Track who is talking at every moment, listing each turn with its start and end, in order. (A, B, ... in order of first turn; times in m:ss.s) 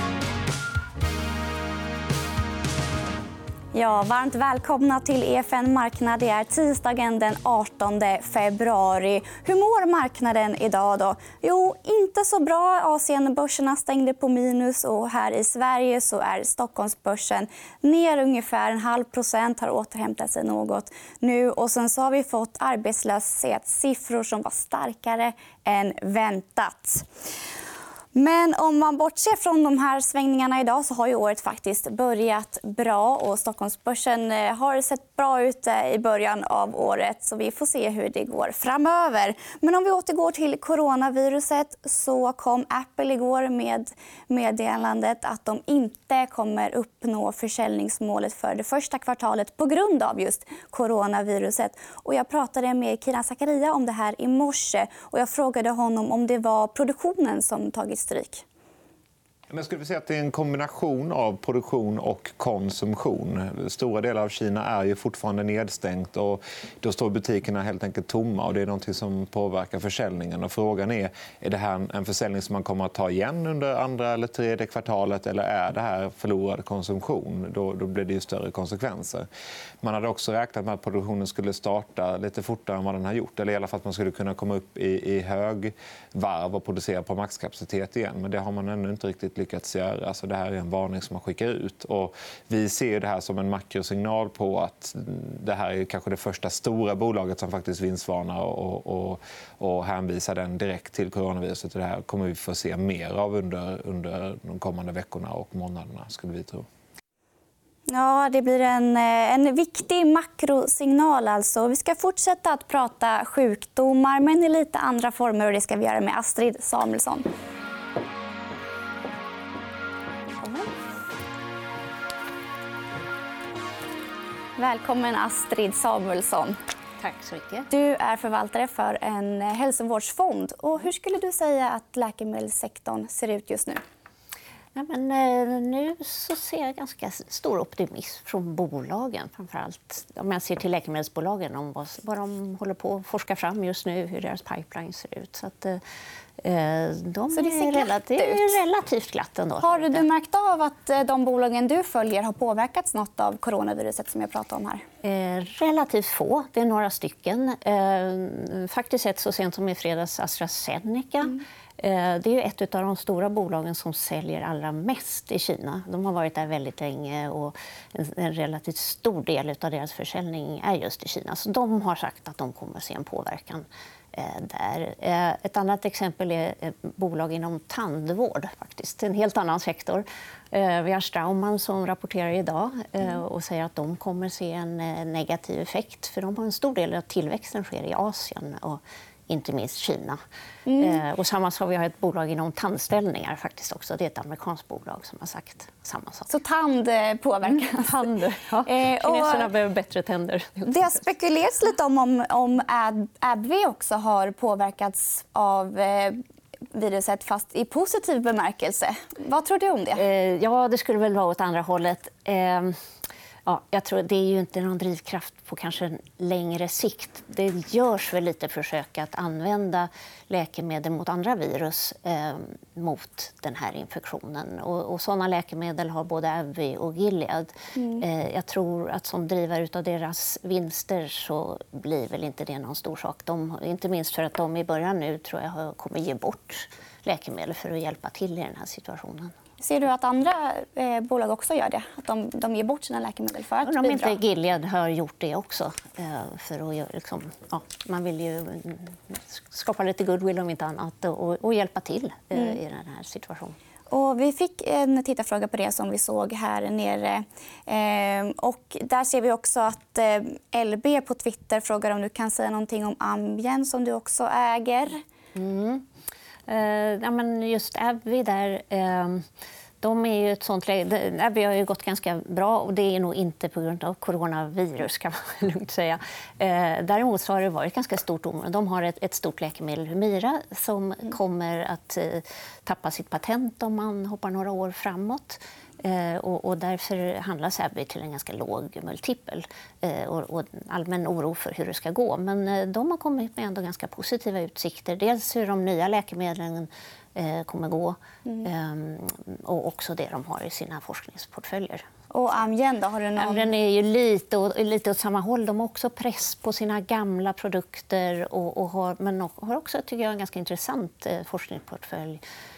0:03.7-0:27.0 A
0:28.1-0:58.4 A
0:59.5-1:19.3 B
1:19.8-1:46.6 B
1:47.9-1:57.3 A
2:04.6-2:06.6 A
2:07.0-2:07.7 C
2:07.7-2:13.8 A
2:14.8-2:25.8 C
2:26.4-2:30.0 C
2:27.3-2:28.6 A
2:29.6-2:34.8 A
2:35.0-3:10.2 C
3:10.7-3:11.0 A
3:10.8-3:16.3 C
3:16.3-3:18.1 A
3:17.5-3:21.0 C
3:18.6-3:19.5 A
3:20.6-3:26.2 A
3:26.7-3:30.0 A
3:30.0-3:32.8 C
3:33.4-3:59.3 C
3:47.8-3:48.0 A
3:59.6-4:04.2 A
4:03.6-4:13.6 C
4:13.9-4:25.0 A
4:25.4-4:25.8 C
4:26.5-4:29.2 C
4:29.8-5:01.8 C
5:02.1-5:03.5 A
5:03.2-5:12.2 C